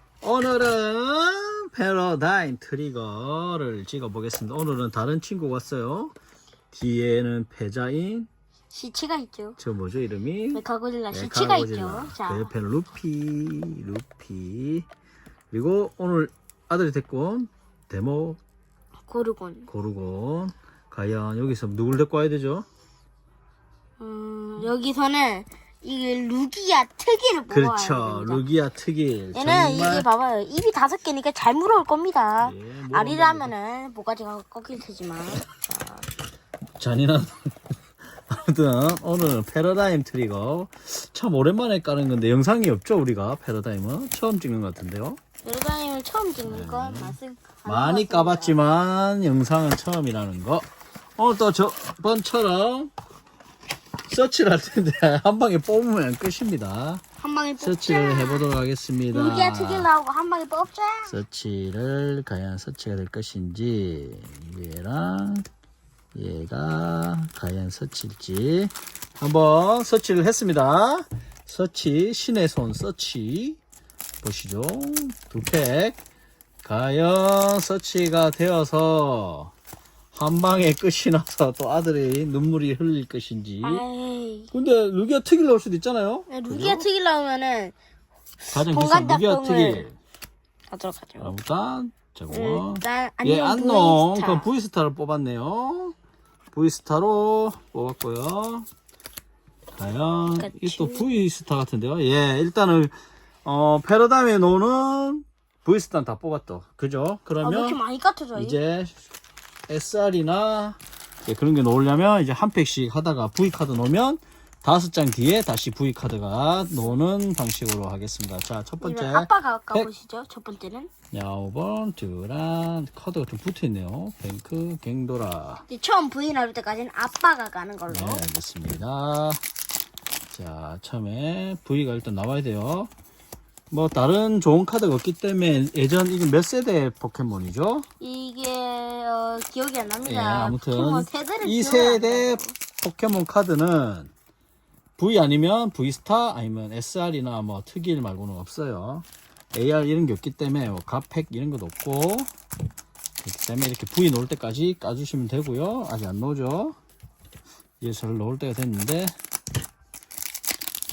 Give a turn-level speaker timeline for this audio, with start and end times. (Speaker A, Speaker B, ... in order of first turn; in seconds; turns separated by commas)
Speaker A: 0.2-6.1, Speaker A: 6.7-8.3, Speaker B: 8.7-9.6, Speaker A: 9.6-14.8, Speaker B: 10.5-12.5, Speaker A: 15.5-18.4, Speaker B: 19.1-19.7, Speaker A: 19.7-22.7, Speaker B: 24.0-28.4, Speaker A: 27.5-30.1, Speaker B: 29.3-36.1, Speaker A: 32.4-33.5, Speaker A: 36.8-37.5, Speaker A: 38.3-45.2, Speaker B: 45.4-48.6, Speaker A: 46.5-50.6, Speaker A: 51.2-52.9, Speaker A: 54.1-57.0, Speaker B: 57.2-58.5, Speaker A: 57.6-59.9, Speaker B: 59.1-61.2, Speaker A: 61.0-65.4, Speaker A: 66.1-73.6, Speaker A: 74.2-76.0, Speaker A: 76.6-79.5, Speaker A: 80.1-83.8, Speaker B: 83.6-84.5, Speaker A: 84.5-86.9, Speaker B: 86.3-87.8, Speaker A: 88.5-90.0, Speaker B: 88.5-89.9, Speaker B: 90.7-91.3, Speaker A: 91.2-95.9, Speaker B: 92.3-94.5, Speaker A: 96.5-98.7, Speaker A: 99.7-102.9, Speaker B: 100.4-101.0, Speaker A: 103.4-107.8, Speaker B: 107.4-108.6, Speaker A: 108.4-109.0, Speaker A: 109.7-119.9, Speaker B: 118.8-120.9, Speaker A: 121.1-125.6, Speaker B: 125.7-128.2, Speaker A: 127.9-129.4, Speaker A: 130.3-132.9, Speaker A: 133.7-137.9, Speaker B: 138.0-142.5, Speaker A: 140.0-144.1, Speaker A: 145.0-152.3, Speaker A: 153.2-156.8, Speaker A: 157.8-159.1